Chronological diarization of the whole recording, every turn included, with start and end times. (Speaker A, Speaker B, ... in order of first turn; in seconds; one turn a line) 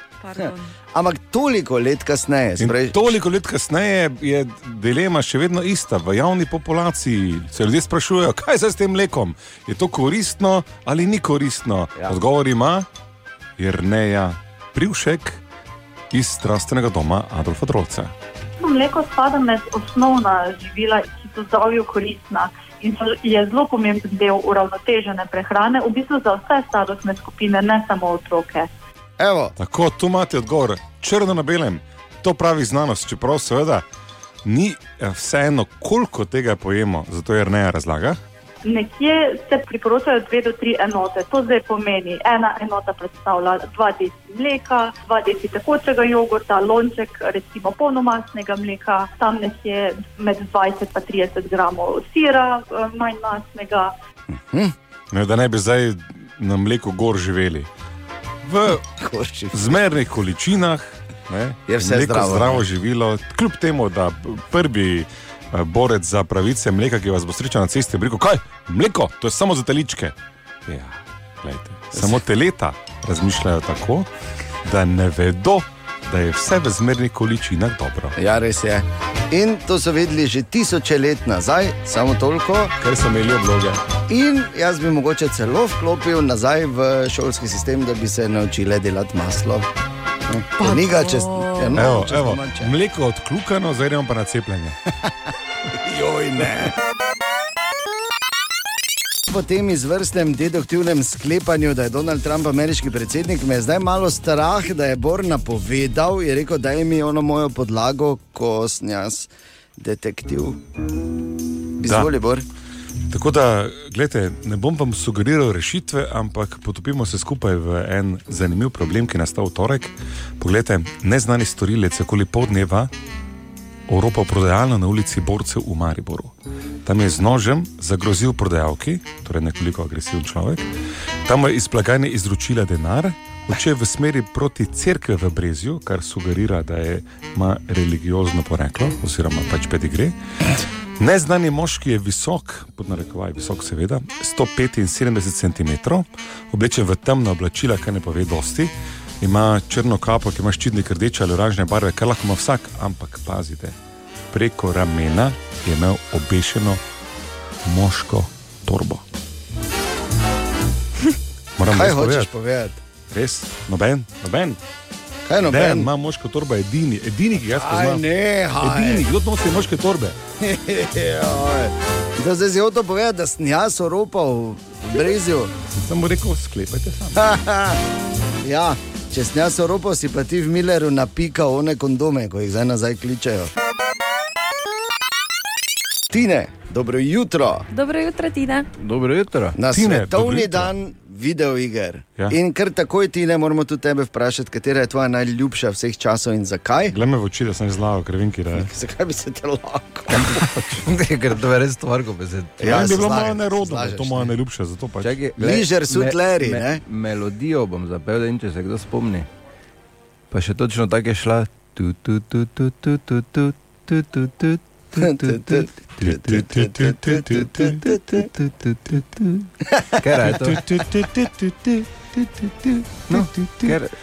Speaker A: 0.2-0.7
Speaker B: 0.4-3.0
Speaker C: 2.6-12.9
Speaker C: 13.6-15.4
Speaker C: 16.1-18.1
Speaker D: 18.6-28.7
Speaker B: 29.2-29.6
Speaker C: 29.6-33.9
Speaker C: 34.5-38.2
Speaker D: 38.6-53.9
Speaker B: 54.3-54.7
Speaker C: 55.1-57.7
Speaker C: 58.4-58.8
Speaker B: 58.7-59.8
Speaker C: 59.5-74.1
Speaker B: 61.7-62.6
Speaker B: 71.9-72.2
Speaker C: 74.6-78.2
Speaker B: 78.2-82.7
Speaker C: 82.8-83.8
Speaker B: 84.1-89.7
Speaker B: 90.3-92.7
Speaker A: 90.6-91.9
Speaker C: 91.8-94.8
Speaker B: 95.7-96.8
Speaker B: 99.3-110.6
Speaker B: 111.8-112.5
Speaker C: 111.8-112.1
Speaker C: 113.1-122.9
Speaker C: 123.9-126.3
Speaker C: 126.8-130.7
Speaker C: 131.2-140.2
Speaker C: 141.0-153.8
Speaker C: 154.3-156.8
Speaker C: 157.7-159.0
Speaker C: 161.6-162.3
Speaker B: 161.7-162.8
Speaker C: 163.1-164.6
Speaker B: 165.3-165.9
Speaker C: 165.4-168.0
Speaker B: 167.4-169.1
Speaker C: 168.6-170.2
Speaker B: 170.4-175.5
Speaker C: 175.7-177.3
Speaker B: 177.2-177.8
Speaker B: 178.4-183.5
Speaker B: 186.1-187.7
Speaker A: 187.7-188.7
Speaker E: 188.8-189.6
Speaker B: 189.6-197.0
Speaker C: 189.7-190.7
Speaker C: 196.9-198.7
Speaker B: 198.5-200.6
Speaker E: 200.3-202.8
Speaker B: 202.6-204.3
Speaker C: 202.6-205.2
Speaker E: 205.0-209.3
Speaker B: 205.4-206.8
Speaker E: 210.3-215.7
Speaker B: 215.0-218.2
Speaker C: 216.0-217.8
Speaker E: 217.6-220.7
Speaker B: 219.7-220.0
Speaker C: 220.2-221.9
Speaker C: 223.1-223.8
Speaker E: 223.1-223.9